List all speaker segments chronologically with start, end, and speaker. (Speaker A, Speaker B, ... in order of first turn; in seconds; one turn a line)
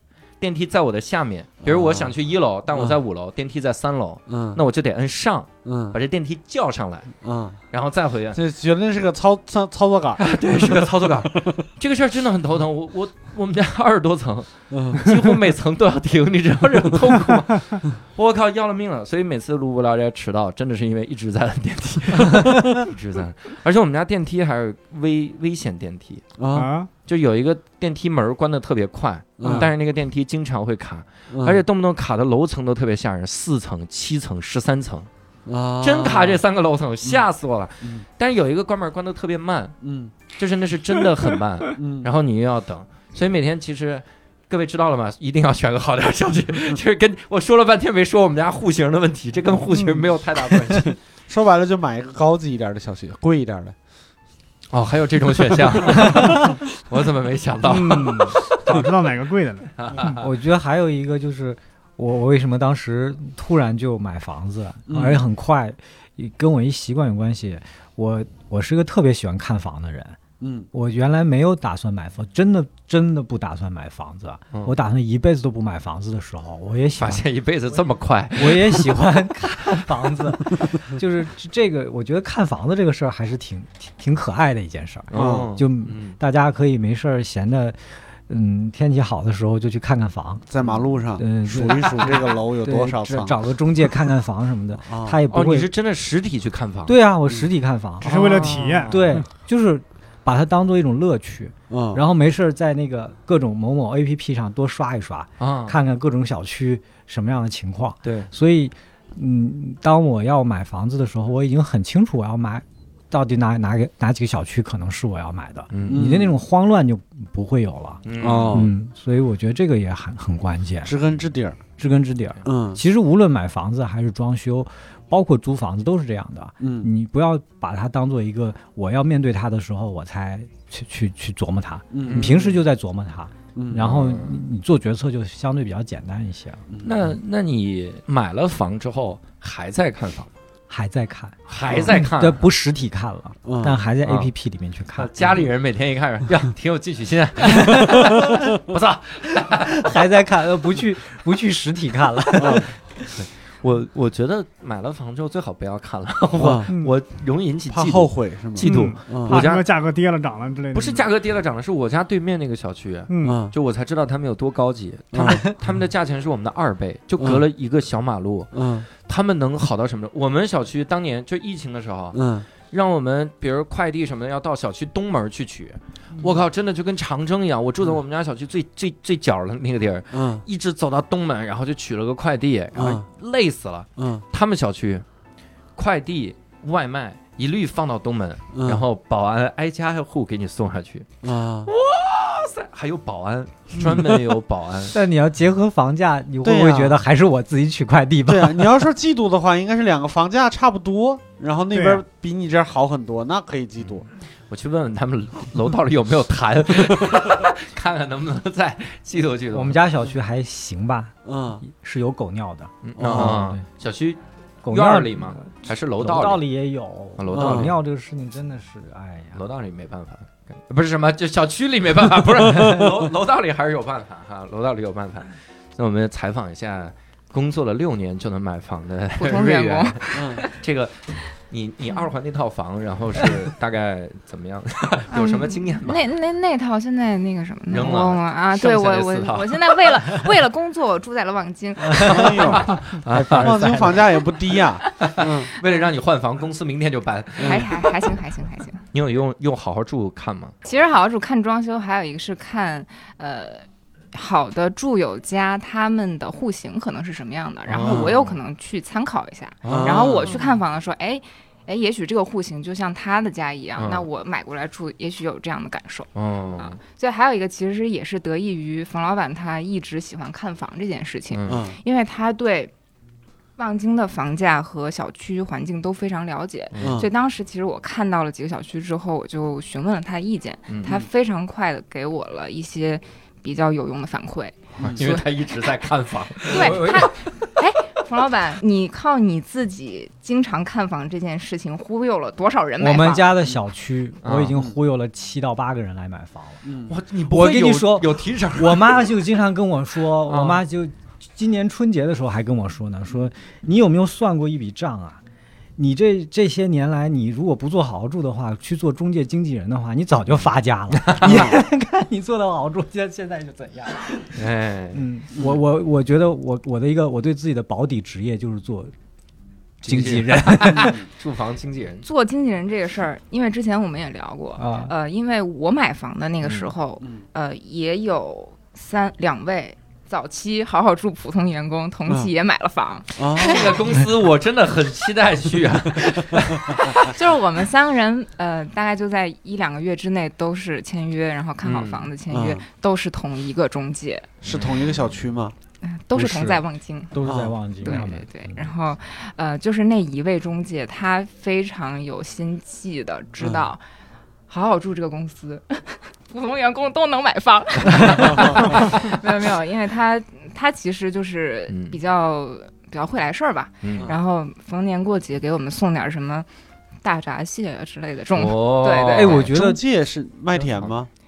Speaker A: 0.4-7.2
Speaker B: 1.6-2.1
Speaker B: 2.7-3.0
Speaker B: 4.3-4.6
Speaker B: 5.6-6.0
Speaker B: 7.2-7.6
Speaker A: 7.7-8.4
Speaker B: 8.3-11.6
Speaker A: 10.2-26.2
Speaker B: 14.7-15.2
Speaker B: 26.4-26.7
Speaker C: 26.5-26.9
Speaker A: 27.1-35.1
Speaker B: 29.4-29.7
Speaker B: 31.3-31.6
Speaker B: 35.5-36.4
Speaker A: 35.8-39.8
Speaker B: 39.8-40.1
Speaker A: 40.3-50.9
Speaker B: 41.8-42.1
Speaker C: 49.7-50.1
Speaker B: 50.8-53.7
Speaker A: 54.7-58.8
Speaker C: 57.6-60.2
Speaker A: 59.8-60.3
Speaker D: 60.0-70.2
Speaker B: 64.9-65.2
Speaker B: 70.4-70.7
Speaker D: 70.7-77.3
Speaker A: 74.5-74.8
Speaker A: 77.0-79.6
Speaker D: 78.4-90.5
Speaker A: 85.1-86.2
Speaker B: 85.1-85.5
Speaker B: 90.5-93.4
Speaker A: 90.6-90.9
Speaker D: 91.2-95.7
Speaker B: 94.8-95.2
Speaker A: 95.3-96.9
Speaker D: 96.8-120.9
Speaker C: 98.0-99.3
Speaker A: 98.0-98.9
Speaker B: 101.7-102.0
Speaker A: 105.4-105.8
Speaker A: 108.0-108.3
Speaker A: 115.7-116.1
Speaker B: 115.9-116.3
Speaker A: 118.0-118.7
Speaker B: 118.2-118.7
Speaker B: 120.8-121.6
Speaker D: 121.8-136.6
Speaker B: 122.4-122.8
Speaker B: 126.6-126.9
Speaker B: 131.9-132.5
Speaker A: 132.0-132.5
Speaker B: 133.6-133.9
Speaker A: 133.8-134.4
Speaker B: 136.7-137.2
Speaker A: 136.8-140.3
Speaker D: 140.7-145.4
Speaker A: 141.5-142.5
Speaker B: 143.4-143.8
Speaker A: 144.0-144.3
Speaker A: 144.9-149.8
Speaker D: 147.5-148.1
Speaker D: 149.7-153.1
Speaker B: 152.4-152.7
Speaker A: 153.1-159.6
Speaker B: 156.4-156.7
Speaker C: 156.7-156.9
Speaker B: 157.7-159.4
Speaker C: 158.6-161.0
Speaker A: 160.7-185.0
Speaker C: 163.1-163.4
Speaker B: 163.2-163.5
Speaker B: 165.1-165.4
Speaker B: 168.5-168.9
Speaker B: 172.1-172.5
Speaker B: 180.1-180.4
Speaker B: 182.7-183.0
Speaker B: 184.0-184.2
Speaker A: 185.7-195.0
Speaker B: 188.5-188.8
Speaker B: 191.2-191.7
Speaker D: 194.9-198.8
Speaker B: 196.4-197.0
Speaker B: 198.2-204.1
Speaker C: 201.7-202.0
Speaker A: 204.5-209.8
Speaker D: 209.5-213.6
Speaker B: 211.2-211.6
Speaker A: 212.8-216.4
Speaker B: 213.0-213.5
Speaker D: 214.6-219.4
Speaker A: 217.2-217.8
Speaker B: 217.3-217.7
Speaker A: 219.3-236.0
Speaker E: 229.2-230.5
Speaker B: 230.1-230.4
Speaker E: 235.1-242.6
Speaker A: 237.7-240.2
Speaker A: 242.0-248.1
Speaker B: 242.0-245.5
Speaker D: 243.1-243.9
Speaker E: 247.4-248.8
Speaker A: 248.9-250.5
Speaker E: 250.6-272.7
Speaker A: 257.7-258.4
Speaker B: 257.8-258.1
Speaker A: 259.6-260.4
Speaker B: 259.7-260.2
Speaker A: 263.8-264.1
Speaker A: 266.1-266.8
Speaker A: 271.3-271.6
Speaker B: 271.5-271.8
Speaker E: 273.6-285.2
Speaker A: 276.7-277.0
Speaker B: 276.8-277.1
Speaker A: 284.8-287.5
Speaker E: 286.5-293.3
Speaker D: 286.6-287.0
Speaker D: 292.8-296.6
Speaker A: 294.2-294.6
Speaker B: 296.6-296.9
Speaker A: 296.9-299.0
Speaker D: 297.3-305.2
Speaker A: 300.2-300.6
Speaker D: 305.8-318.9
Speaker A: 311.0-311.4
Speaker B: 311.2-311.6
Speaker A: 314.3-315.0
Speaker A: 319.8-322.1
Speaker D: 319.9-321.0
Speaker B: 320.7-321.0
Speaker E: 322.0-333.9
Speaker D: 324.6-324.9
Speaker A: 326.4-326.7
Speaker B: 333.2-333.7
Speaker A: 333.4-337.1
Speaker E: 336.8-344.3
Speaker A: 341.6-342.1
Speaker B: 342.3-342.6
Speaker B: 344.4-345.5
Speaker A: 344.5-344.9
Speaker E: 345.8-353.8
Speaker D: 346.1-348.7
Speaker B: 347.2-347.5
Speaker A: 347.9-348.1
Speaker B: 353.4-353.7
Speaker E: 354.5-366.5
Speaker A: 358.0-359.1
Speaker A: 361.7-362.0
Speaker A: 363.8-364.1
Speaker E: 367.0-369.4
Speaker A: 368.3-369.5
Speaker D: 369.1-369.8
Speaker B: 369.5-371.1
Speaker A: 370.6-370.9